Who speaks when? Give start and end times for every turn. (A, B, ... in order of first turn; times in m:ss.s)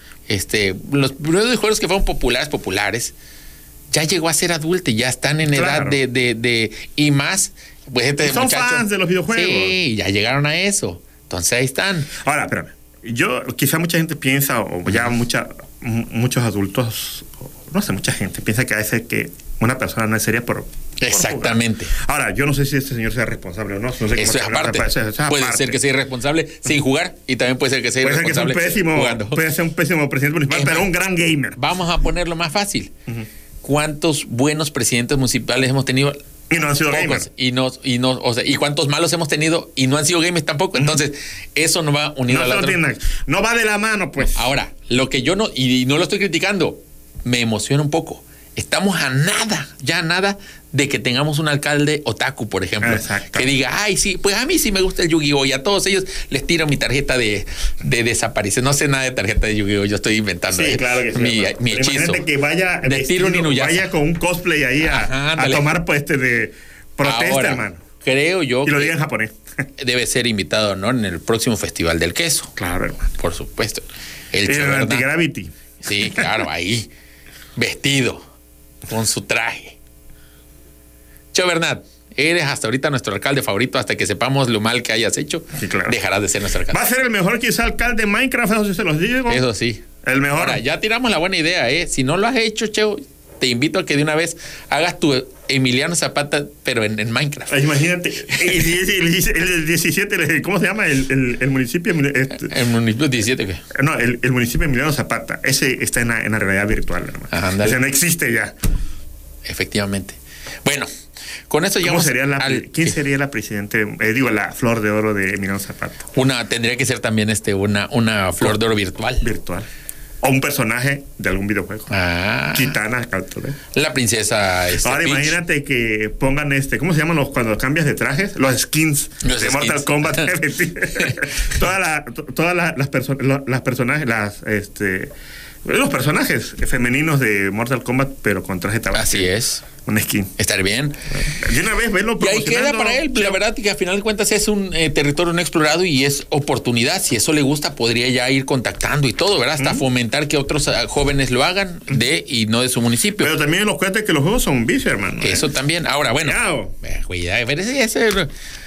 0:00.3-0:03.1 A
0:03.9-0:12.1 A
0:05.5-0:06.0 B
0:08.2-0:09.8 B
0:12.2-0:25.8 B
0:21.0-0:21.9 A
0:24.2-0:29.4 A
0:28.0-0:31.6 B
0:30.5-0:30.9 A
0:31.6-0:32.9 A
0:33.6-0:36.2 A
0:36.5-0:37.2 B
0:36.9-0:42.8 A
0:42.3-0:44.4 B
0:44.3-1:02.2 A
0:52.8-0:53.5 B
1:00.5-1:07.8 B
1:02.8-1:03.9 A
1:04.8-1:05.7 A
1:07.0-1:08.9 A
1:08.6-1:09.3 B
1:09.8-1:12.5 A
1:12.6-1:13.0 B
1:13.2-1:15.0 A
1:14.4-1:15.5 B
1:15.8-1:16.9 A
1:17.6-1:18.2 A
1:18.9-1:19.8 A
1:21.3-1:26.8 A
1:25.6-1:26.0 B
1:26.7-1:29.4 B
1:29.3-1:29.8 A
1:30.0-1:30.6 B
1:30.4-1:37.6 A
1:37.5-1:42.5 B
1:42.4-1:43.6 A
1:43.8-1:48.5 B
1:47.3-1:47.8 A
1:49.4-1:50.9 A
1:51.5-1:52.9 A
1:51.8-1:56.0 B
1:56.1-1:59.2 A
1:59.2-1:59.7 B
2:00.2-2:01.9 B
2:01.9-2:02.8 A
2:02.5-2:03.6 B
2:03.7-2:05.4 A
2:04.8-2:15.1 B
2:09.2-2:10.3 A
2:15.6-2:19.3 B
2:18.9-2:19.7 A
2:19.8-2:20.3 B
2:20.4-2:21.0 A
2:21.3-2:23.4 B
2:22.2-2:33.3 A
2:33.2-2:35.5 B
2:35.2-2:38.3 A
2:36.2-2:36.7 B